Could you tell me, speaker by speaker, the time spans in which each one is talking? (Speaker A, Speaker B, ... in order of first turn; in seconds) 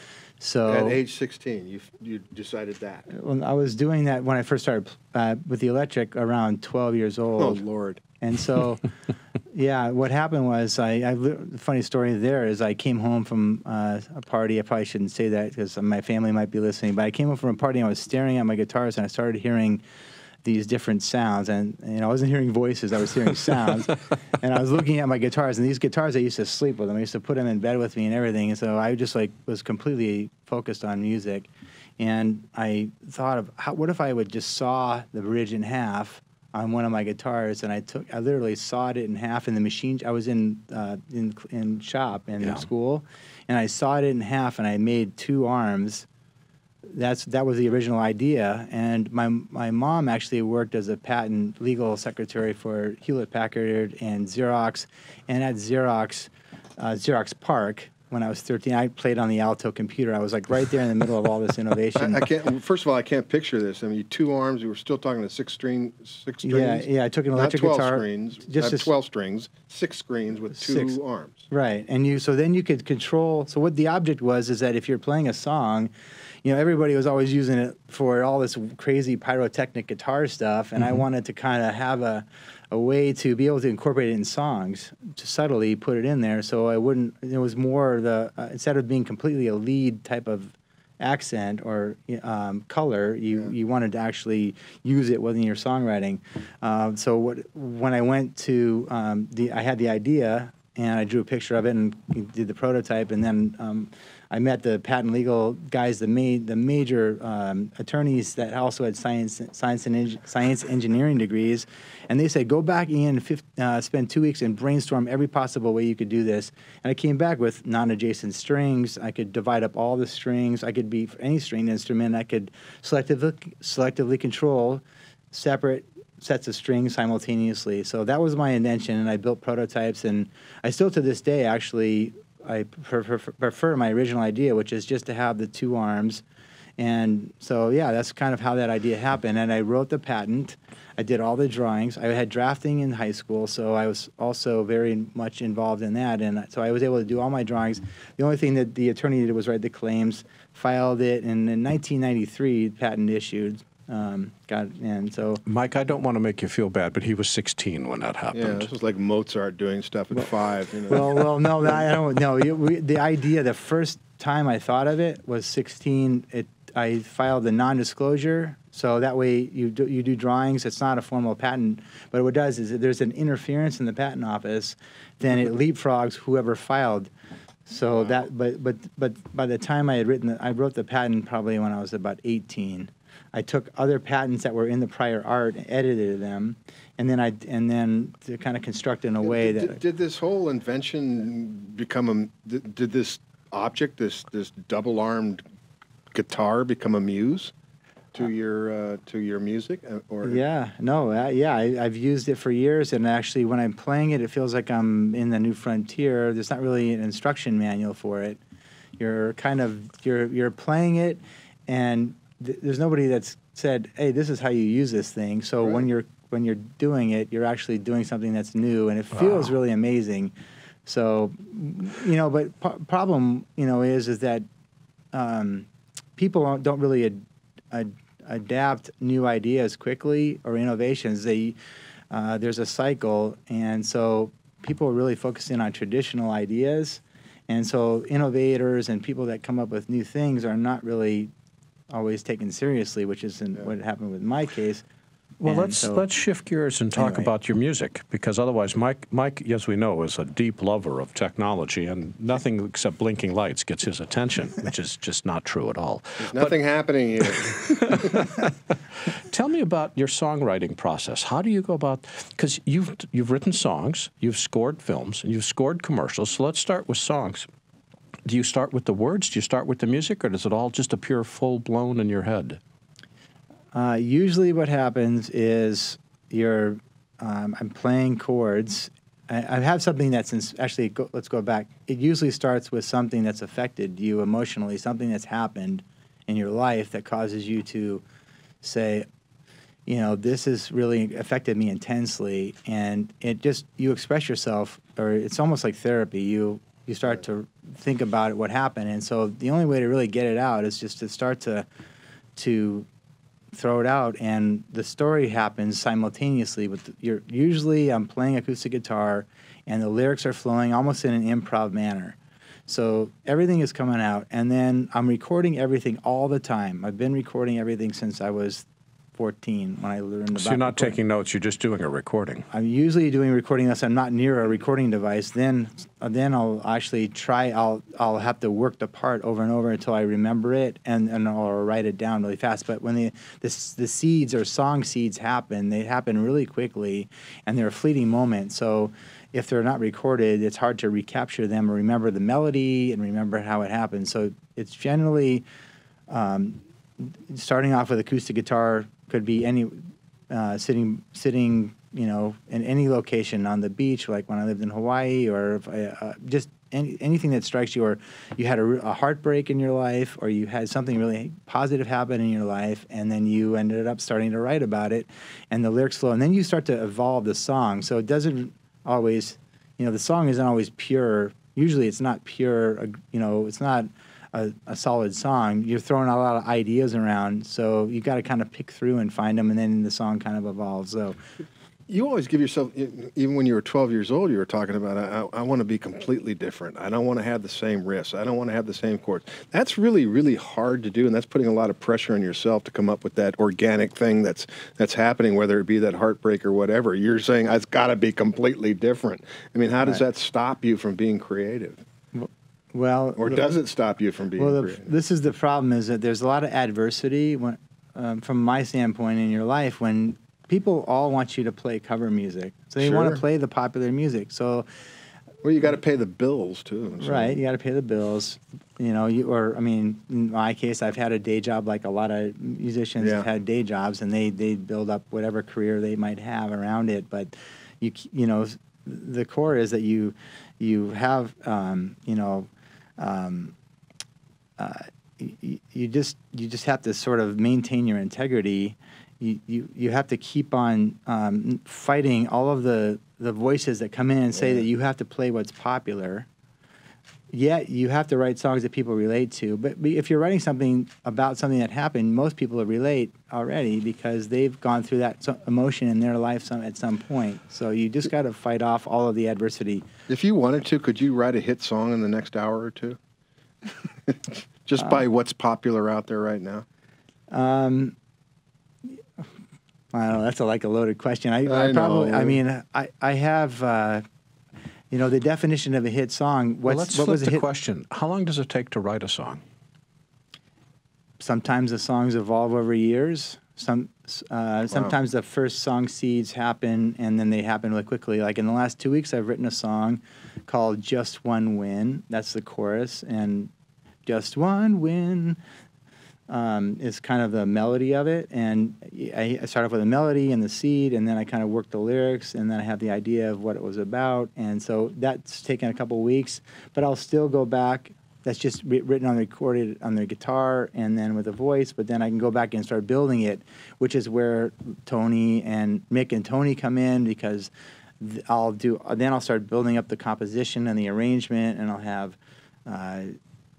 Speaker A: 0.4-1.0, 3.1-7.6, 8.2-8.9, 9.5-19.8, 20.4-46.1, 46.9-62.2, 66.4-68.9, 70.5-71.0, 71.5-75.9, 76.4-136.2, 136.8-155.4, 160.9-177.1, 177.7-189.8, 200.2-208.4, 209.0-220.3, 220.8-224.4, 225.1-227.2, 227.7-231.6, 232.1-241.3, 241.9-244.8, 245.4-246.1, 246.9-247.3, 273.7-288.0, 288.6-289.1, 289.9-301.7, 302.4-302.9, 303.5-318.6, 319.1-321.0, 322.5-345.4, 346.1-381.2, 402.1-403.6, 404.4-414.7, 417.0-433.5, 434.6-446.3, 447.3-459.9, 467.3-467.9, 469.9-474.0, 474.9-477.4, 481.2-493.5, 494.0-495.4, 496.3-523.1
Speaker B: 0.7-3.1, 7.4-8.0, 61.9-71.5, 158.3-161.3, 189.2-195.4, 196.1-197.5, 198.1-200.4, 256.2-258.0, 381.9-401.8, 403.1-404.9, 412.8-413.2, 415.4-417.4, 423.0-423.2, 460.1-463.0, 464.1-466.6, 471.4-472.4
Speaker C: 42.4-42.6, 155.5-158.7, 245.4-256.6, 257.2-258.5, 259.1-267.5, 268.2-272.6, 320.3-322.4, 476.6-479.4